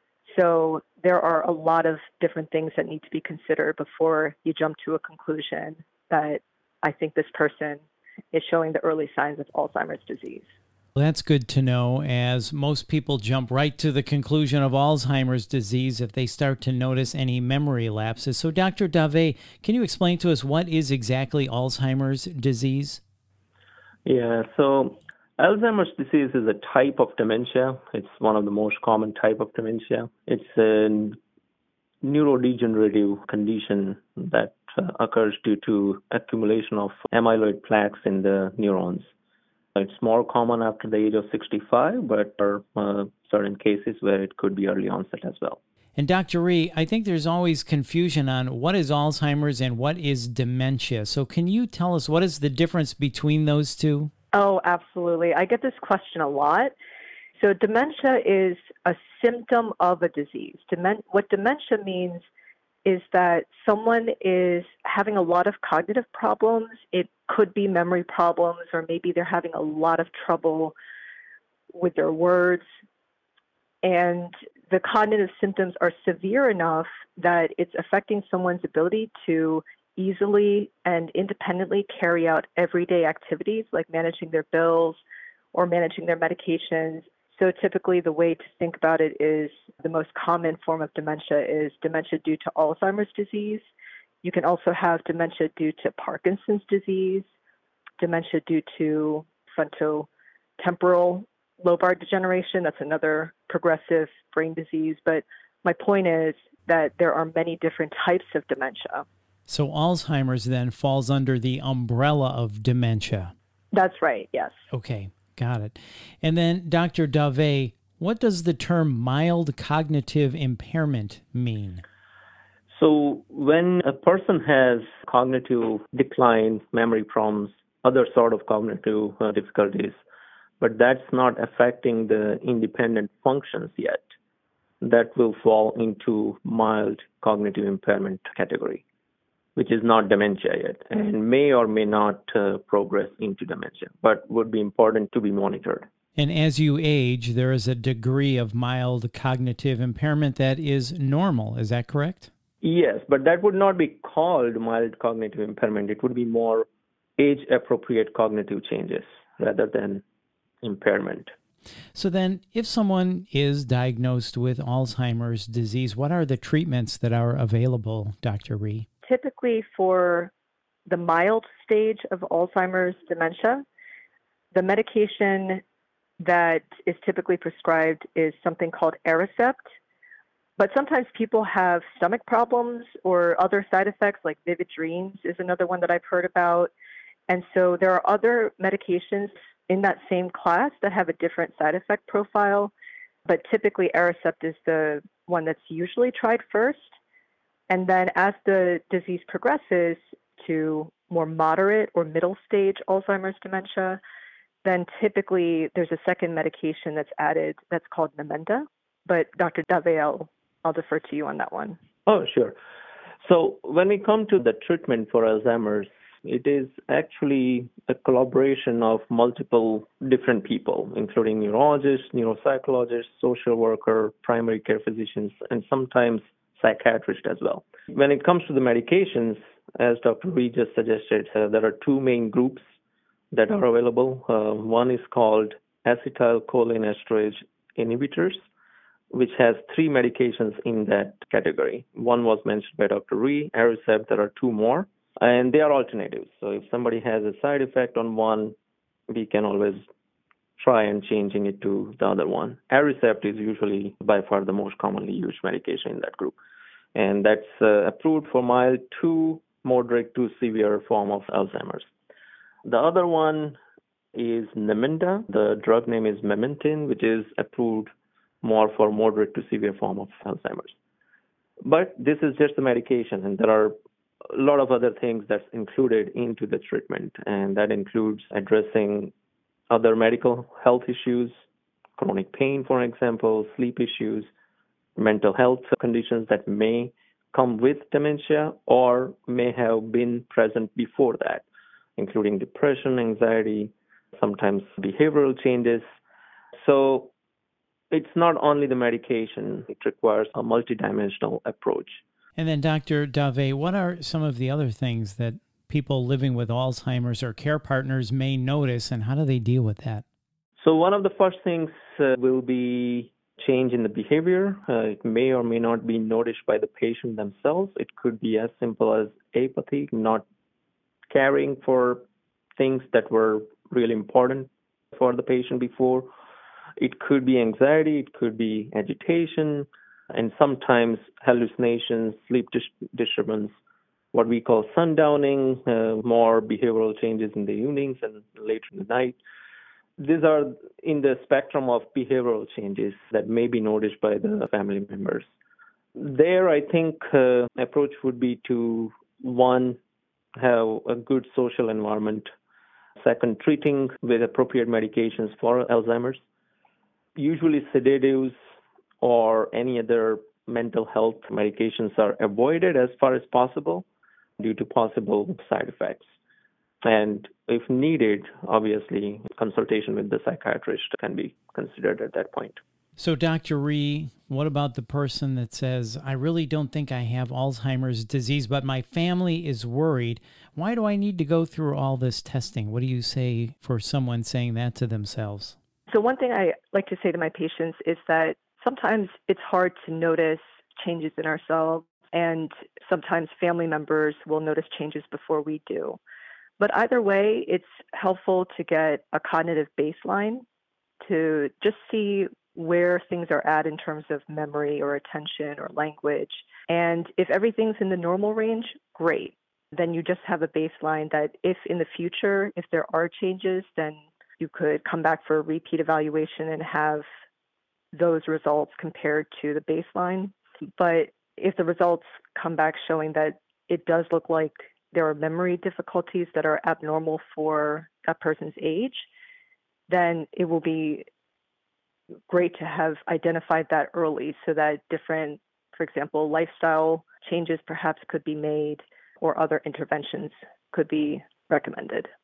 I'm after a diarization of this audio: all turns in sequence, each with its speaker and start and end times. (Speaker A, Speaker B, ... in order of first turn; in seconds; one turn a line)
Speaker A: 0.2-10.5
Speaker B: 10.9-23.0
Speaker C: 24.1-31.2
Speaker C: 32.0-39.1
Speaker C: 39.8-45.6
Speaker B: 46.0-54.1
Speaker A: 54.3-56.7
Speaker A: 57.4-62.3
Speaker A: 62.8-70.7
Speaker A: 71.7-72.6
Speaker A: 73.8-85.0
Speaker A: 85.5-93.7
Speaker A: 94.2-97.3
Speaker A: 98.0-100.1
Speaker A: 100.6-109.0
Speaker B: 109.5-113.3
Speaker A: 113.7-114.6
Speaker B: 114.7-121.8
Speaker C: 122.7-130.0
Speaker C: 130.6-134.0
Speaker C: 134.8-138.8
Speaker C: 139.6-145.9
Speaker B: 146.2-152.3
Speaker C: 152.6-160.0
Speaker C: 160.6-161.3
Speaker B: 161.9-168.9
Speaker A: 169.0-170.3
Speaker A: 170.9-173.6
Speaker A: 174.5-175.6
Speaker A: 176.2-179.6
Speaker A: 180.6-186.7
Speaker A: 187.3-192.7
Speaker A: 193.2-196.9
Speaker A: 197.7-204.0
Speaker A: 204.6-211.8
Speaker C: 212.1-212.6
Speaker C: 213.2-232.6
Speaker C: 233.3-238.4
Speaker C: 239.1-248.5
Speaker C: 249.1-249.8
Speaker C: 250.6-256.4
Speaker C: 256.9-261.9
Speaker C: 262.6-263.6
Speaker C: 264.1-267.9
Speaker C: 268.4-270.8
Speaker C: 271.6-273.7
Speaker C: 274.3-279.1
Speaker C: 279.7-281.3
Speaker C: 282.0-284.3
Speaker C: 284.9-291.4
Speaker C: 292.0-295.8
Speaker C: 296.6-297.1
Speaker C: 297.9-302.0
Speaker B: 302.4-310.0
Speaker C: 310.6-320.2
Speaker C: 321.1-322.0
Speaker C: 322.6-326.1
Speaker C: 326.8-333.5
Speaker C: 334.1-339.2
Speaker C: 340.0-345.3
Speaker C: 345.9-349.8
Speaker C: 350.4-352.3
Speaker C: 353.0-356.2
Speaker C: 357.1-358.3
Speaker C: 359.0-363.8
Speaker C: 364.4-366.1
Speaker C: 366.8-372.6
Speaker B: 373.0-385.6
Speaker A: 385.9-396.0
Speaker A: 396.6-400.4
Speaker A: 401.0-417.0
Speaker A: 417.9-429.1
Speaker A: 429.9-431.1
Speaker A: 432.3-442.1